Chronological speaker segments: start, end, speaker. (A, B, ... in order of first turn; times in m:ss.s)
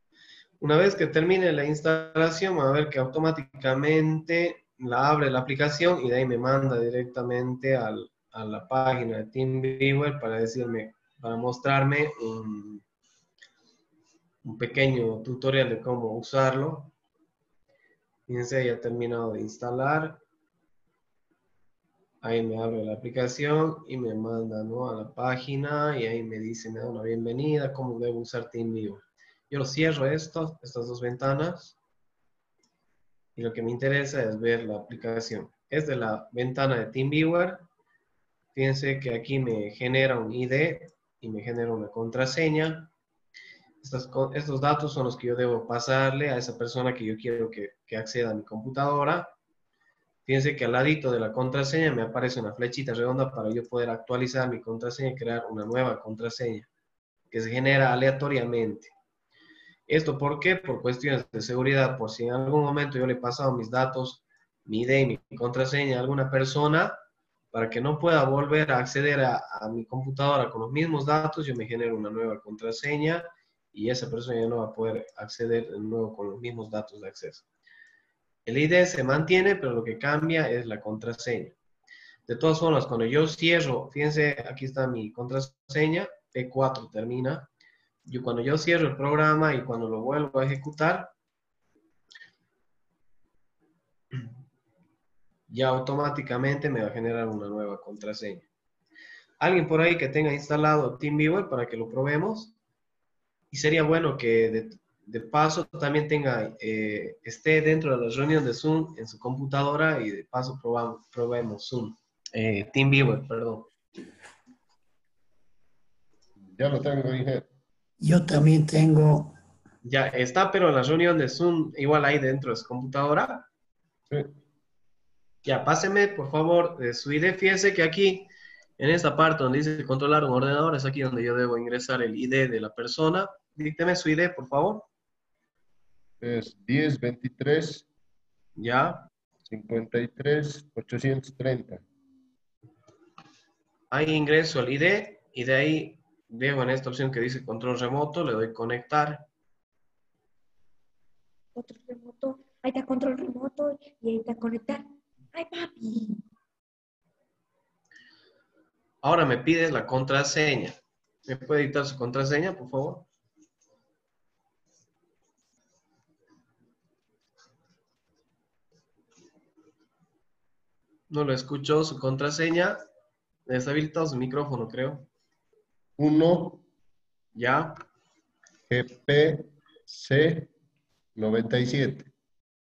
0:00.6-0:12.8 A
0:14.4-0:16.9 A
0:18.3-0:20.2 A
0:22.2-0:31.8 A
0:33.4-0:37.6 A
0:38.5-0:42.9 A
0:43.8-0:49.3 A
0:50.2-0:56.7 A
0:57.3-0:58.9 A
0:59.9-1:07.0 A
1:07.5-1:17.4 A
1:18.4-1:21.5 A
1:22.3-1:27.5 A
1:28.0-1:31.1 A
1:35.5-1:38.4 A
1:39.4-1:42.5 A
1:43.5-1:53.7 A
1:56.4-1:57.5 B
1:59.8-2:03.5 A
2:05.4-2:14.8 A
2:16.2-2:17.8 B
2:18.6-2:19.1 A
2:19.5-2:21.8 B
2:23.9-2:29.2 A
2:31.6-2:36.2 C
2:39.0-2:43.0 A
2:51.1-2:52.8 A
2:53.5-2:55.1 A
2:56.0-2:56.6 B
2:57.3-2:57.7 A
2:58.7-3:00.5 B
3:01.1-3:02.1 B